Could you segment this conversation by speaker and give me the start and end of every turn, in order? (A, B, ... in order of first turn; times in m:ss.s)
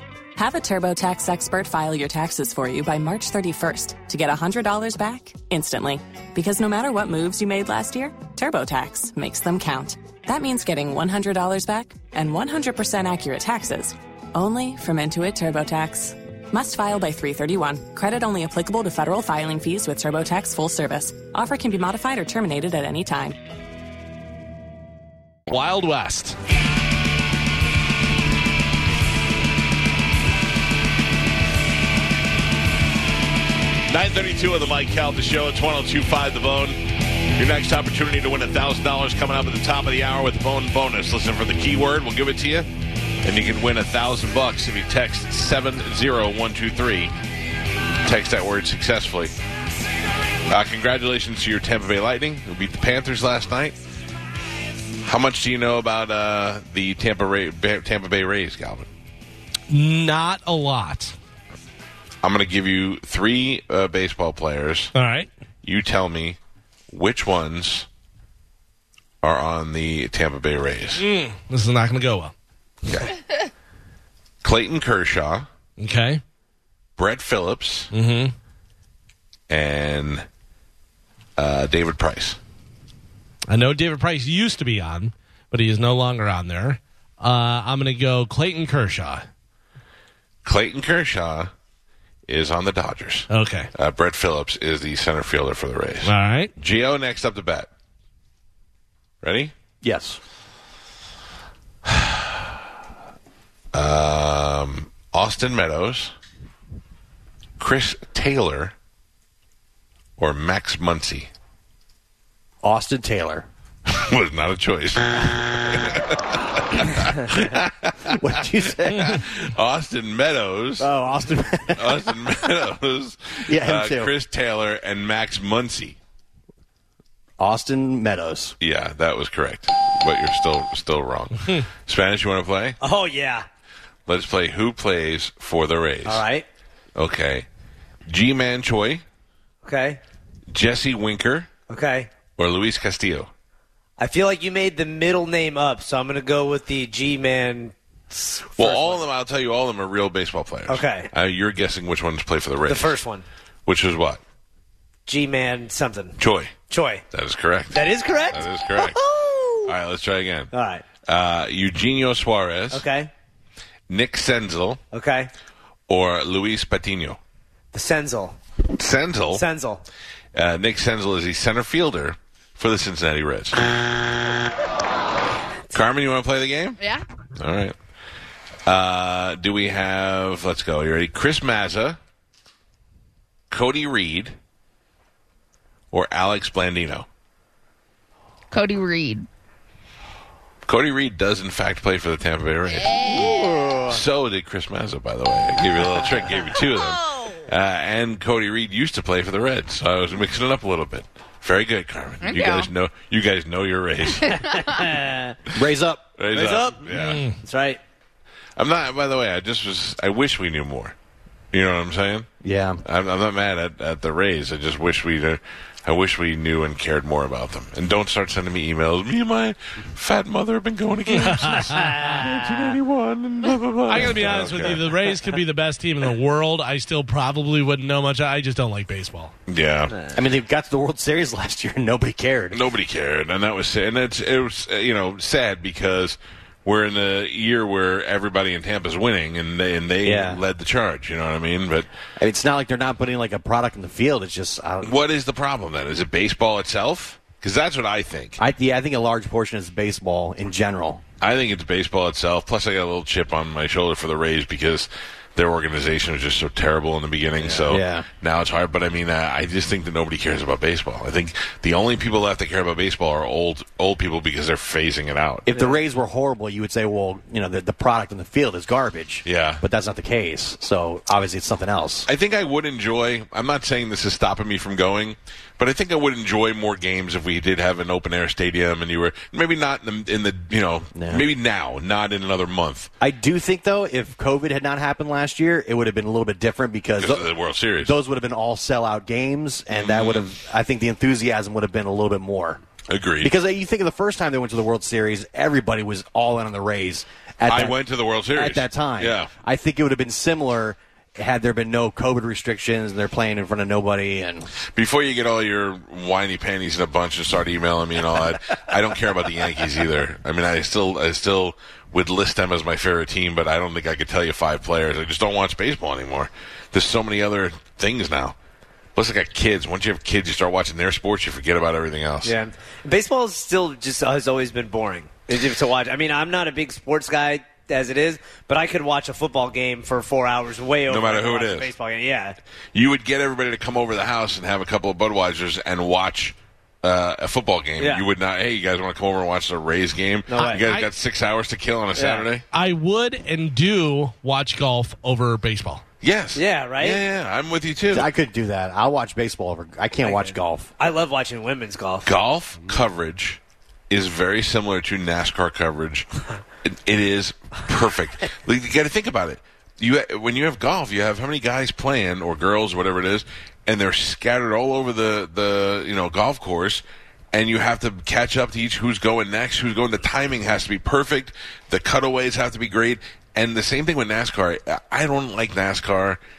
0:00.4-0:23.4 A
0:25.5-0:26.4 B
0:33.9-0:42.7 C
0:43.2-0:47.1 C
0:48.0-0:49.4 C
0:50.5-0:53.8 C
0:55.0-0:58.9 C
0:59.7-1:01.2 B
1:02.2-1:04.9 C
1:05.0-1:05.3 B
1:05.6-1:06.4 C
1:06.9-1:07.9 C
1:09.2-1:11.0 C
1:10.9-1:12.3 B
1:12.9-1:13.2 C
1:14.4-1:15.5 C
1:15.8-1:16.2 B
1:17.0-1:17.9 C
1:17.9-1:18.3 B
1:19.5-1:20.3 C
1:21.4-1:22.4 C
1:23.5-1:29.2 B
1:30.4-1:31.5 C
1:32.3-1:37.7 C
1:33.3-1:33.7 B
1:36.0-1:36.5 B
1:39.2-1:39.5 C
1:39.8-1:40.2 D
1:43.7-1:46.1 C
1:47.6-1:48.7 C
1:50.2-1:51.3 C
1:52.6-1:53.5 D
1:53.9-1:58.1 C
1:58.0-1:59.2 D
1:58.8-2:00.9 C
2:00.8-2:01.9 D
2:01.8-2:06.0 C
2:03.5-2:04.1 D
2:07.4-2:08.6 D
2:08.6-2:12.8 C
2:12.8-2:13.5 E
2:14.1-2:16.2 C
2:16.0-2:16.5 E
2:17.0-2:17.5 C
2:18.1-2:19.0 C
2:19.6-2:20.0 E
2:20.5-2:21.5 C
2:21.7-2:22.1 E
2:22.4-2:23.3 C
2:24.0-2:29.0 E
2:28.6-2:33.0 C
2:30.7-2:31.1 E
2:32.7-2:33.2 E
2:33.7-2:34.2 C
2:35.1-2:37.0 E
2:36.2-2:36.6 C
2:37.1-2:39.0 C
2:37.7-2:39.7 E
2:39.7-2:40.5 C
2:40.5-2:40.8 E
2:41.1-2:42.8 C
2:42.7-2:43.1 E
2:43.9-2:44.8 C
2:44.9-2:45.3 E
2:45.9-2:47.2 C
2:47.7-2:48.4 E
2:48.7-2:49.4 C
2:49.3-2:49.8 E
2:50.4-2:53.7 C
2:55.7-2:56.8 C
2:56.8-2:57.0 F
2:57.4-2:57.8 C
2:58.7-3:02.0 C
3:03.5-3:04.4 C
3:05.9-3:07.1 C
3:08.5-3:09.3 F
3:10.7-3:13.2 C
3:12.7-3:13.5 F
3:13.1-3:14.0 D
3:13.9-3:24.3 C
3:22.2-3:22.7 F
3:24.2-3:25.4 E
3:25.5-3:26.0 D
3:26.2-3:27.2 C
3:26.3-3:27.8 E
3:26.9-3:27.4 B
3:28.6-3:31.0 C
3:31.5-3:32.3 C
3:32.4-3:32.8 D
3:32.8-3:44.9 C
3:41.1-3:42.0 B
3:41.5-3:42.7 E
3:43.9-3:49.3 B
3:49.5-3:49.9 C
3:49.9-3:50.3 E
3:50.1-3:52.7 D
3:52.5-4:01.9 C
4:00.0-4:00.4 D
4:02.2-4:05.0 D
4:04.8-4:08.4 C
4:08.4-4:11.0 D
4:11.2-4:25.5 C
4:17.5-4:18.1 D
4:25.5-4:32.1 D
4:25.5-4:25.8 E
4:29.2-4:29.6 C
4:32.1-4:42.9 C
4:41.0-4:41.3 D
4:43.0-4:52.6 D
4:47.0-4:48.0 C
4:49.7-4:50.4 C
4:52.9-4:53.3 C
4:53.2-5:04.5 D
4:57.5-4:59.3 C
5:04.7-5:18.4 C
5:19.0-5:22.4 C
5:22.2-5:32.4 E
5:30.9-5:31.7 C
5:32.7-5:42.4 C
5:37.8-5:38.1 E
5:40.3-5:40.6 E
5:40.4-5:40.9 B
5:41.9-5:42.3 E
5:42.5-5:45.8 B
5:46.0-5:48.1 C
5:46.4-5:47.0 E
5:47.9-5:50.7 D
5:50.0-5:52.1 E
5:52.0-5:56.1 C
5:56.6-6:16.2 C